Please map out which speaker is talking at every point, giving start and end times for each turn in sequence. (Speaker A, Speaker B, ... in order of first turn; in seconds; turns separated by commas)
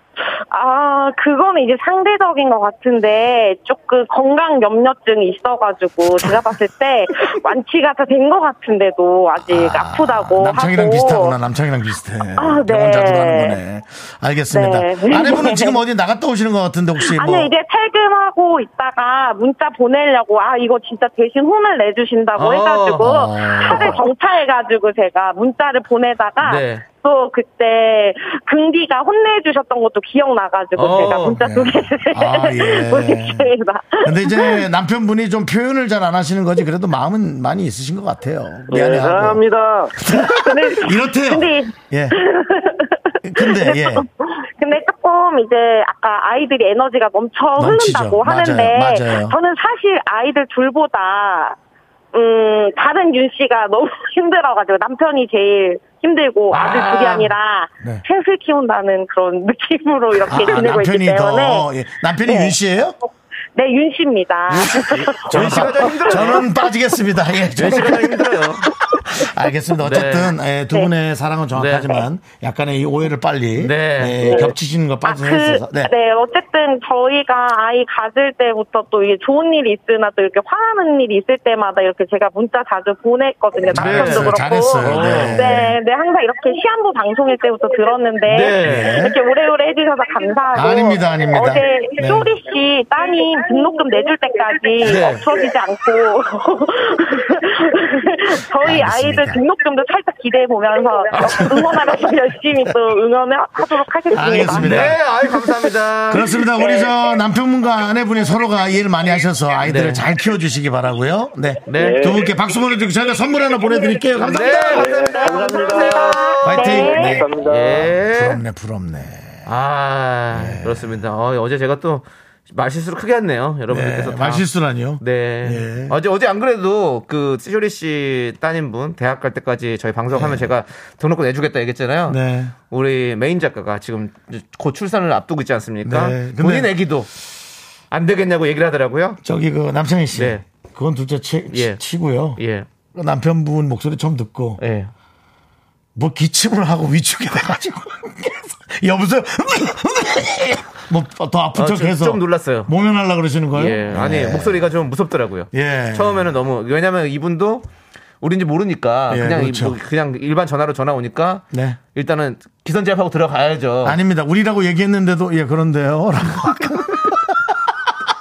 Speaker A: 0.5-11.4, Speaker B: 9.4-17.5, Speaker A: 12.4-13.6, Speaker A: 14.5-15.8, Speaker A: 17.0-34.7, Speaker C: 22.4-24.0, Speaker B: 23.0-24.0, Speaker C: 26.4-26.8, Speaker C: 30.8-31.4, Speaker B: 31.4-33.5, Speaker B: 34.0-39.4, Speaker D: 38.7-40.0, Speaker B: 40.0-42.2, Speaker A: 40.3-51.6, Speaker B: 43.2-44.0, Speaker B: 47.6-49.4, Speaker A: 52.1-61.7, Speaker C: 56.5-57.3, Speaker B: 60.3-63.0, Speaker A: 62.3-62.5, Speaker A: 63.5-65.6, Speaker B: 64.5-75.9, Speaker C: 64.8-66.5, Speaker A: 66.2-66.5, Speaker C: 67.6-68.7, Speaker C: 69.8-70.3, Speaker C: 71.5-72.0, Speaker C: 73.6-74.5, Speaker A: 74.2-74.5, Speaker A: 75.0-105.0, Speaker B: 83.7-85.8, Speaker C: 83.7-85.4, Speaker C: 88.3-89.0, Speaker B: 88.6-89.2, Speaker B: 90.5-92.3, Speaker C: 94.8-95.2, Speaker B: 98.6-99.4, Speaker C: 101.1-101.6, Speaker B: 101.3-101.7, Speaker B: 104.1-105.0, Speaker C: 104.4-106.3, Speaker B: 106.1-114.8, Speaker C: 109.6-110.0, Speaker C: 111.7-112.1, Speaker D: 111.8-112.3, Speaker C: 114.2-118.4, Speaker A: 114.3-117.2, Speaker D: 114.8-118.0, Speaker B: 116.4-119.5, Speaker C: 119.5-124.5, Speaker B: 120.3-121.0, Speaker B: 123.7-126.0, Speaker C: 125.0-132.2, Speaker B: 130.1-130.5, Speaker B: 132.1-132.6, Speaker C: 132.7-137.1, Speaker B: 135.8-136.7, Speaker C: 137.9-139.2, Speaker B: 139.2-142.4, Speaker C: 140.1-140.4, Speaker C: 141.5-141.8, Speaker C: 142.4-142.7, Speaker B: 142.9-144.6, Speaker C: 144.6-144.9, Speaker B: 145.9-154.6, Speaker C: 151.6-152.7, Speaker C: 153.5-157.7, Speaker B: 155.5-156.3, Speaker C: 158.2-164.0, Speaker B: 159.1-159.8, Speaker B: 161.5-161.8, Speaker B: 163.8-167.9